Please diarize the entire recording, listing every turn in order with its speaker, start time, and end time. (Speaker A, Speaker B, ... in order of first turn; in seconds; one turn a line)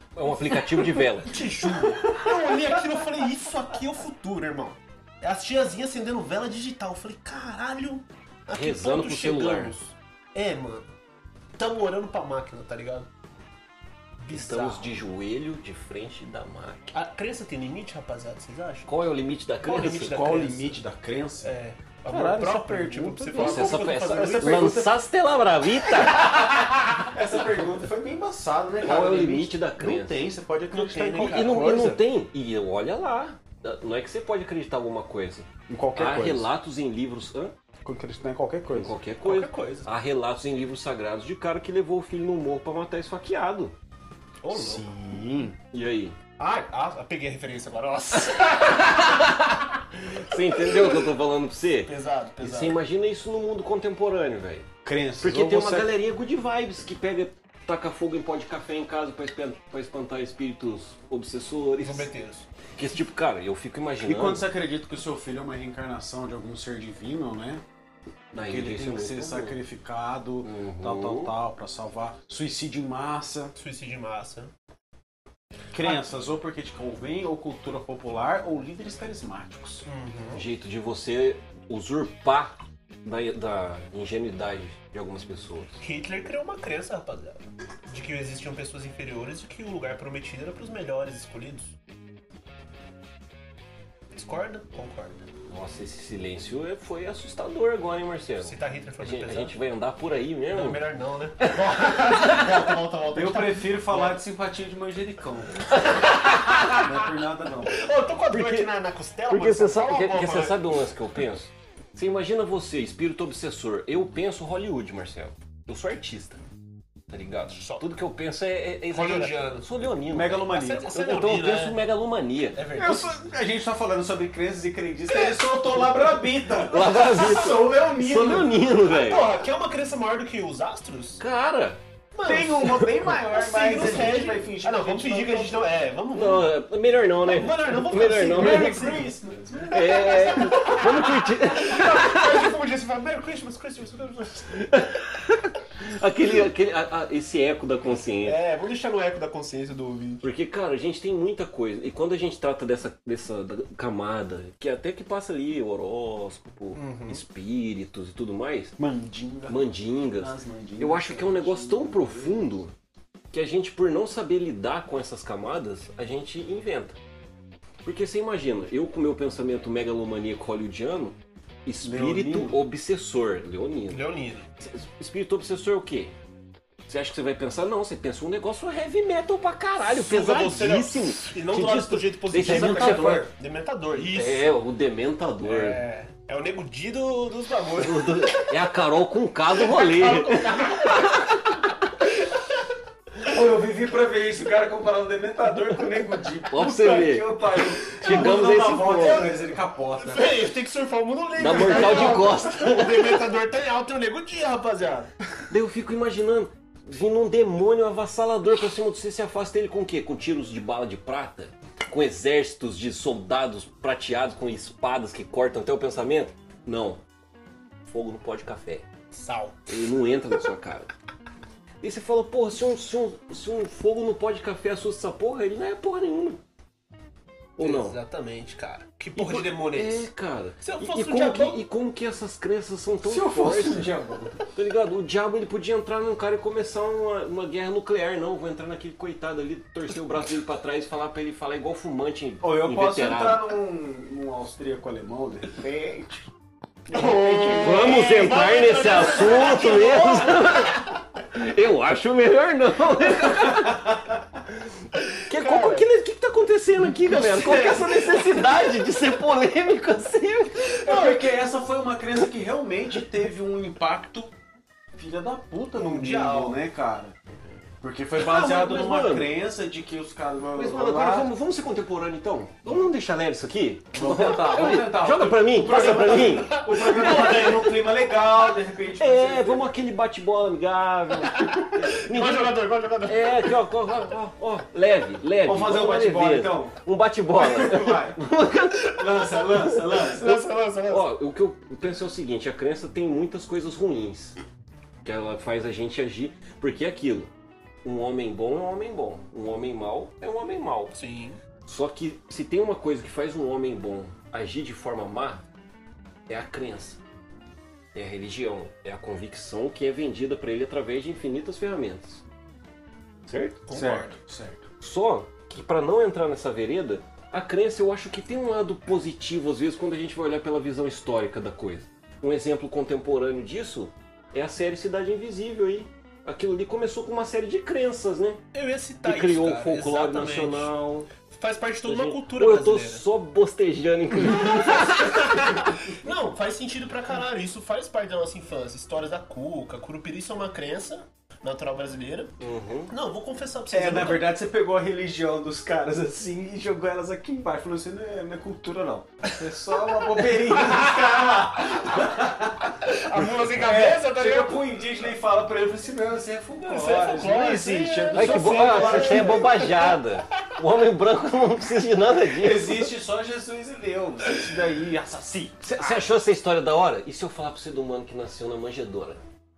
Speaker A: 0.1-1.4
Speaker B: 1.2-9.8
Speaker C: 1.8-2.8
Speaker A: 8.5-9.9
Speaker B: 10.3-10.9
Speaker B: 11.6-13.1
Speaker B: 14.2-15.0
Speaker A: 14.3-16.9
Speaker B: 16.9-18.9
Speaker A: 18.9-20.2
Speaker B: 19.6-20.8
Speaker C: 20.0-21.5
Speaker B: 21.4-24.7
Speaker C: 22.1-24.9
Speaker A: 23.4-26.3
Speaker C: 26.0-32.0
Speaker B: 26.1-26.6
Speaker A: 28.8-30.3
Speaker B: 30.7-31.7
Speaker A: 31.2-37.5
Speaker C: 35.7-36.5
Speaker C: 37.8-38.9
Speaker A: 38.7-43.7
Speaker B: 39.2-39.9
Speaker B: 44.4-44.9
Speaker C: 44.5-45.6
Speaker A: 45.7-46.2
Speaker B: 46.4-48.9
Speaker A: 48.3-54.7
Speaker B: 50.7-51.0
Speaker B: 51.9-52.8
Speaker C: 54.8-55.9
Speaker A: 55.2-62.1
Speaker B: 61.8-62.5
Speaker A: 62.8-64.5
Speaker C: 64.0-67.6
Speaker A: 68.3-69.6
Speaker C: 68.3-73.5
Speaker A: 70.4-71.3
Speaker B: 73.5-74.5
Speaker C: 75.7-79.8
Speaker B: 79.8-80.4
Speaker A: 80.3-85.8
Speaker B: 85.8-91.7
Speaker B: 94.1-95.2
Speaker A: 95.5-100.8
Speaker B: 98.4-99.5
Speaker B: 100.5-104.2
Speaker A: 101.4-102.7
Speaker C: 103.1-105.9
Speaker B: 105.7-106.9
Speaker A: 106.3-106.7
Speaker C: 106.7-107.9
Speaker B: 107.7-110.6
Speaker A: 108.3-108.7
Speaker A: 109.3-116.4
Speaker A: 117.1-122.6
Speaker B: 117.5-117.8
Speaker B: 118.9-119.6
Speaker C: 120.1-120.9
Speaker B: 120.5-121.8
Speaker B: 122.5-123.2
Speaker C: 122.7-128.5
Speaker B: 125.1-127.7
Speaker A: 126.6-129.3
Speaker B: 128.9-131.2
Speaker A: 131.2-131.8
Speaker B: 132.1-136.5
Speaker C: 132.2-135.7
Speaker A: 136.1-139.0
Speaker B: 137.2-139.1
Speaker C: 138.2-140.4
Speaker A: 139.7-142.5
Speaker B: 139.7-144.6
Speaker A: 144.5-148.4
Speaker B: 148.2-150.3
Speaker A: 150.2-158.8
Speaker B: 156.7-157.2
Speaker C: 158.8-162.5
Speaker A: 159.5-162.7
Speaker A: 163.3-167.0
Speaker A: 167.8-174.0
Speaker C: 171.8-172.6
Speaker B: 173.9-174.5
Speaker A: 174.6-176.1
Speaker A: 176.8-183.3
Speaker B: 179.8-184.6
Speaker C: 182.3-183.3
Speaker A: 183.9-185.8
Speaker B: 185.4-188.5
Speaker A: 187.8-191.7
Speaker B: 189.5-191.6
Speaker C: 193.2-200.4
Speaker A: 196.5-199.3
Speaker B: 197.9-199.3
Speaker B: 200.0-205.1
Speaker A: 201.4-203.2
Speaker C: 201.9-202.3
Speaker A: 205.5-217.0
Speaker A: 217.8-218.8
Speaker B: 219.1-219.6
Speaker A: 219.7-220.9
Speaker A: 221.8-226.4
Speaker A: 227.6-228.0
Speaker B: 227.6-230.1
Speaker A: 229.2-233.9
Speaker B: 230.6-231.6
Speaker C: 233.0-234.4
Speaker A: 234.5-243.6
Speaker C: 242.4-246.3
Speaker C: 246.9-248.0
Speaker B: 246.9-251.0
Speaker A: 247.4-260.8
Speaker C: 253.1-254.2
Speaker B: 255.3-255.9
Speaker C: 257.1-258.5
Speaker B: 260.7-261.3
Speaker C: 260.8-264.3
Speaker C: 264.9-267.1
Speaker B: 265.7-266.6
Speaker C: 267.8-271.3
Speaker A: 268.1-269.4
Speaker A: 270.5-277.4
Speaker C: 273.9-279.7
Speaker B: 275.7-278.1
Speaker A: 278.9-290.0
Speaker B: 281.2-283.6
Speaker C: 285.4-286.8
Speaker C: 287.3-288.2
Speaker C: 288.9-290.5
Speaker B: 289.9-291.1
Speaker A: 290.8-294.4
Speaker A: 295.0-297.3
Speaker A: 297.8-300.9
Speaker B: 300.9-301.4
Speaker A: 301.6-305.4
Speaker A: 306.3-307.0
Speaker A: 307.9-312.2
Speaker A: 313.3-313.6
Speaker B: 313.7-314.2
Speaker C: 313.7-314.7
Speaker A: 314.8-328.4
Speaker B: 328.5-330.7
Speaker A: 329.0-331.1
Speaker B: 331.3-333.1
Speaker A: 331.8-335.6
Speaker B: 334.4-342.3
Speaker A: 342.4-342.9
Speaker B: 342.9-344.3
Speaker C: 343.7-359.8
Speaker B: 350.1-354.7
Speaker B: 356.6-360.0
Speaker A: 358.1-362.9
Speaker C: 362.4-365.6
Speaker A: 365.6-369.2